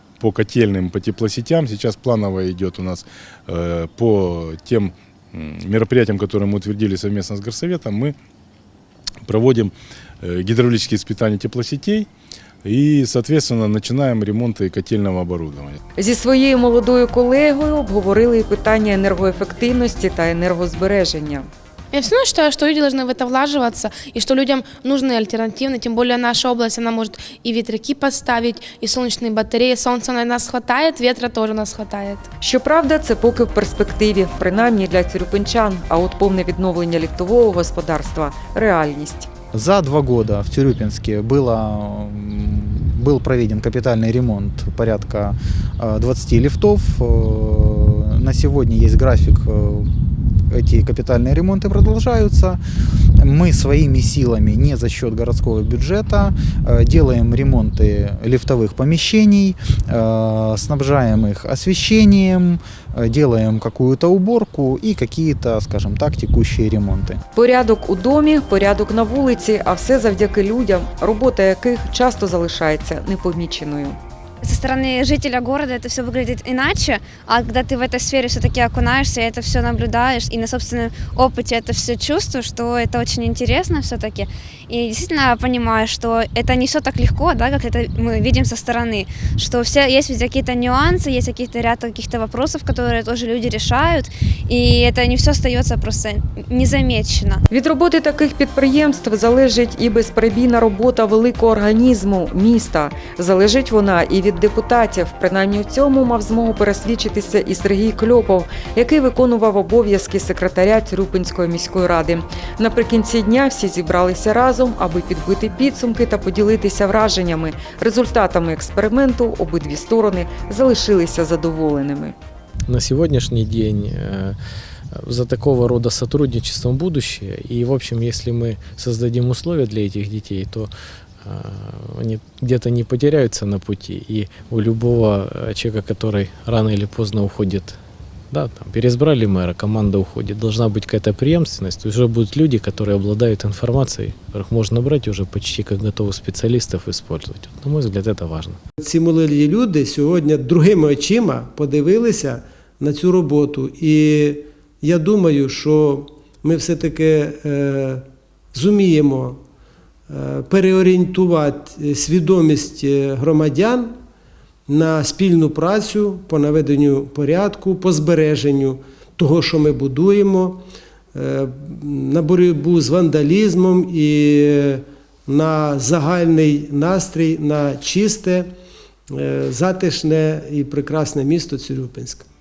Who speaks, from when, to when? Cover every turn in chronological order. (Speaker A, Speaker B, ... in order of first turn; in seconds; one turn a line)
Speaker A: 0.2-8.2
Speaker A: 9.2-12.1
Speaker A: 12.6-15.8
Speaker B: 16.0-21.5
Speaker C: 21.9-32.2
Speaker B: 32.4-39.3
Speaker D: 39.5-49.9
Speaker D: 50.5-52.6
Speaker D: 53.2-67.2
Speaker B: 67.3-74.0
Speaker E: 74.4-97.4
Speaker B: 97.5-122.2
Speaker F: 122.7-124.4
Speaker F: 124.9-130.7
Speaker F: 131.2-137.8
Speaker F: 138.3-148.6
Speaker G: 148.8-159.4
Speaker G: 160.1-163.9
Speaker G: 164.7-178.5
Speaker G: 179.1-182.2